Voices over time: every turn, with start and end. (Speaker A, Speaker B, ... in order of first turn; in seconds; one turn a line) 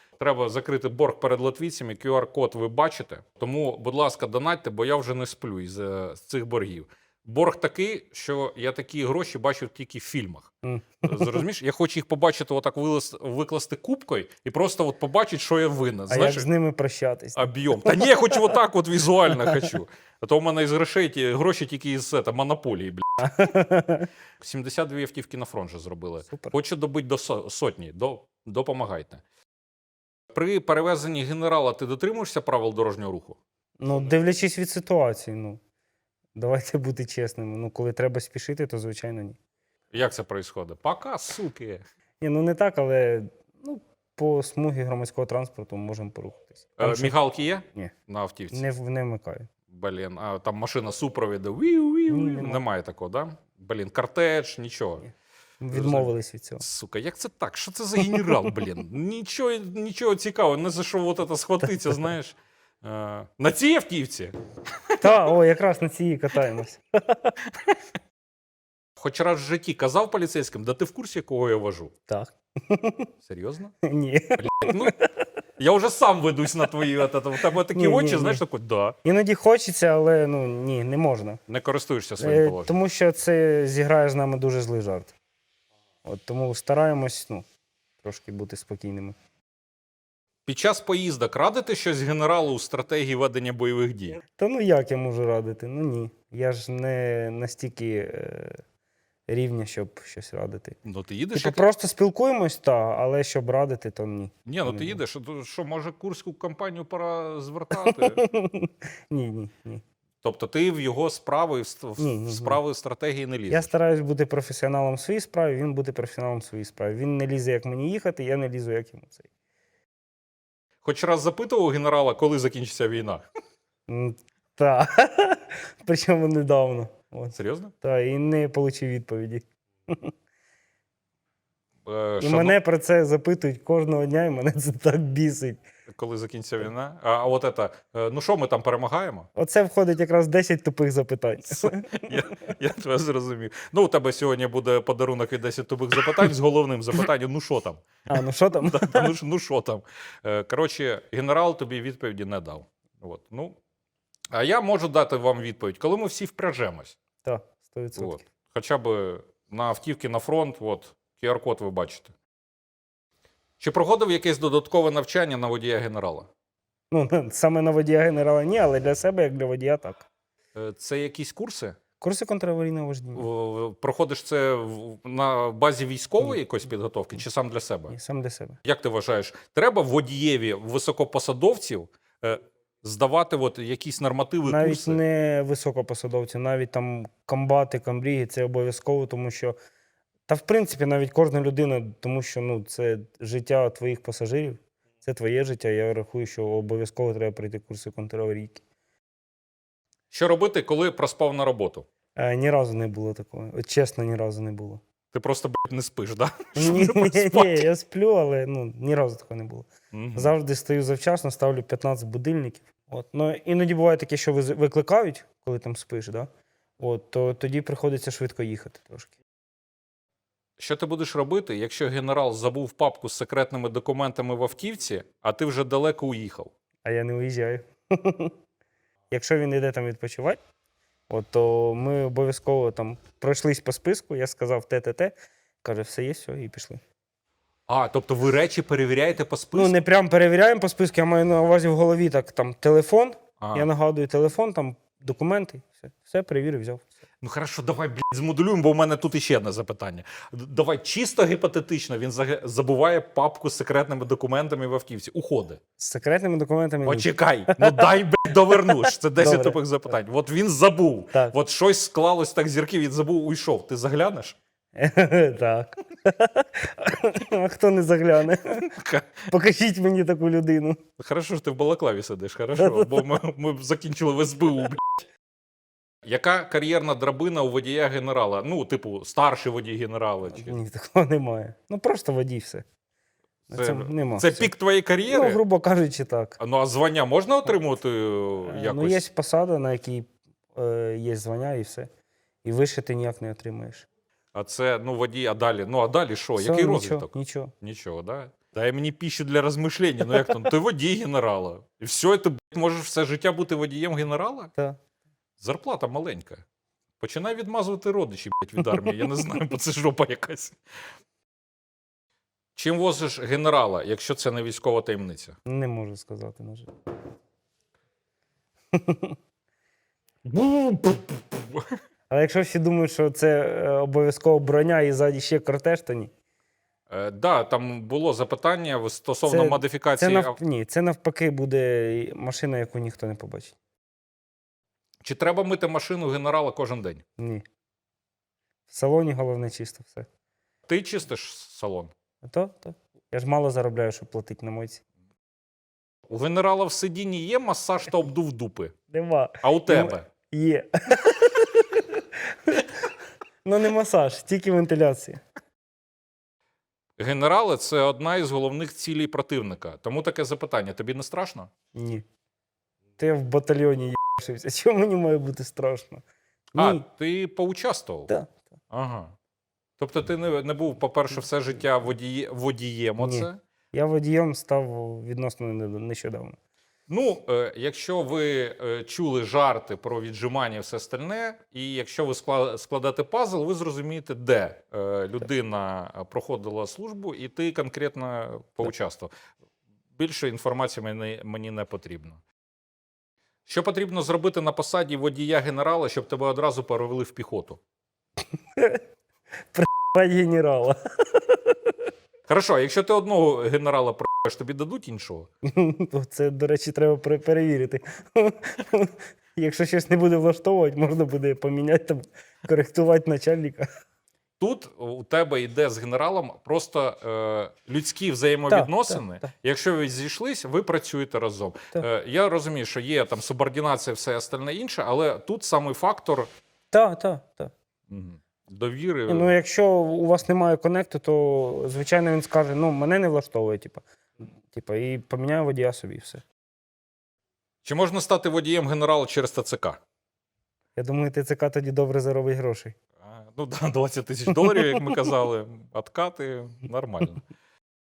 Speaker A: 0.2-10.5
Speaker B: 10.6-11.4
Speaker A: 11.0-16.5
Speaker B: 16.1-18.2
Speaker A: 17.4-23.4
Speaker B: 23.2-24.1
Speaker A: 24.4-29.2
Speaker B: 26.3-26.5
Speaker A: 30.3-33.4
Speaker B: 33.8-35.6
Speaker B: 36.4-39.4
Speaker A: 39.9-41.8
Speaker B: 42.2-47.1
Speaker A: 46.8-48.6
Speaker B: 48.5-49.5
Speaker A: 49.7-55.1
Speaker B: 52.1-52.6
Speaker B: 55.6-56.6
Speaker A: 55.7-64.3
Speaker B: 65.0-67.3
Speaker A: 69.0-71.9
Speaker B: 72.1-73.1
Speaker A: 73.2-73.7
Speaker B: 73.8-75.0
Speaker A: 74.4-74.9
Speaker A: 75.6-79.0
Speaker B: 77.7-78.4
Speaker B: 79.0-81.4
Speaker A: 81.5-82.7
Speaker B: 82.2-85.1
Speaker B: 86.0-87.4
Speaker B: 88.0-89.2
Speaker A: 90.5-94.2
Speaker B: 94.3-98.6
Speaker B: 99.3-100.8
Speaker A: 100.8-101.6
Speaker B: 101.3-105.0
Speaker A: 104.5-108.2
Speaker B: 107.7-109.8
Speaker A: 110.2-113.7
Speaker B: 112.0-112.6
Speaker B: 113.5-119.3
Speaker A: 120.8-123.2
Speaker B: 123.9-130.1
Speaker A: 127.3-127.7
Speaker A: 131.8-132.5
Speaker B: 132.2-135.6
Speaker A: 135.9-139.3
Speaker B: 139.3-142.2
Speaker A: 141.5-153.6
Speaker B: 148.1-149.1
Speaker A: 154.3-156.9
Speaker B: 157.2-158.2
Speaker A: 158.0-162.1
Speaker A: 163.6-166.3
Speaker B: 166.9-170.1
Speaker A: 170.5-171.8
Speaker B: 172.0-173.3
Speaker A: 173.1-177.9
Speaker B: 177.9-178.6
Speaker A: 178.6-185.0
Speaker B: 184.4-189.5
Speaker B: 190.3-198.6
Speaker A: 200.1-201.8
Speaker B: 202.2-204.8
Speaker A: 205.1-207.6
Speaker B: 206.6-219.1
Speaker A: 209.9-210.3
Speaker A: 220.6-226.5
Speaker B: 226.8-228.3
Speaker B: 229.1-230.4
Speaker B: 231.1-236.8
Speaker A: 237.7-239.7
Speaker B: 239.5-246.8
Speaker A: 243.4-243.7
Speaker A: 247.2-255.6
Speaker B: 255.8-257.9
Speaker A: 256.8-264.4
Speaker B: 258.5-259.6
Speaker B: 264.8-268.7
Speaker A: 268.6-269.3
Speaker B: 269.3-270.8
Speaker A: 271.0-275.1
Speaker B: 272.6-273.1
Speaker A: 276.0-280.6
Speaker B: 280.3-282.6
Speaker B: 283.5-284.5
Speaker A: 283.5-285.4
Speaker B: 285.1-286.4
Speaker A: 286.4-289.0
Speaker B: 288.5-291.9
Speaker B: 292.4-293.9
Speaker A: 294.3-297.1
Speaker B: 296.4-297.5
Speaker A: 297.6-304.5
Speaker A: 305.4-306.4
Speaker A: 307.0-310.6
Speaker A: 312.6-315.4
Speaker B: 315.4-316.7
Speaker B: 318.7-319.1
Speaker A: 320.2-321.7
Speaker B: 322.1-326.1
Speaker A: 326.9-330.4
Speaker B: 329.2-333.6
Speaker A: 335.0-337.0
Speaker B: 337.2-337.4
Speaker B: 338.7-340.1
Speaker A: 340.7-341.9
Speaker B: 342.2-344.8
Speaker A: 346.1-348.7
Speaker B: 348.9-352.7
Speaker A: 349.4-350.1
Speaker B: 353.4-355.2
Speaker A: 357.0-361.5
Speaker B: 361.7-362.0
Speaker B: 363.0-366.0
Speaker B: 366.6-366.8
Speaker A: 366.6-368.1
Speaker B: 368.1-368.3
Speaker A: 368.7-369.1
Speaker A: 369.8-373.4
Speaker B: 373.0-376.4
Speaker A: 376.9-389.1
Speaker A: 389.9-392.2
Speaker A: 393.4-397.6
Speaker B: 398.6-398.8
Speaker B: 399.5-401.7
Speaker A: 402.3-405.3
Speaker B: 405.5-413.7
Speaker A: 414.4-426.3
Speaker B: 418.5-419.3
Speaker B: 426.7-427.5
Speaker A: 427.9-429.3
Speaker B: 429.1-436.2
Speaker A: 437.6-439.8
Speaker B: 440.8-442.8
Speaker A: 443.0-447.2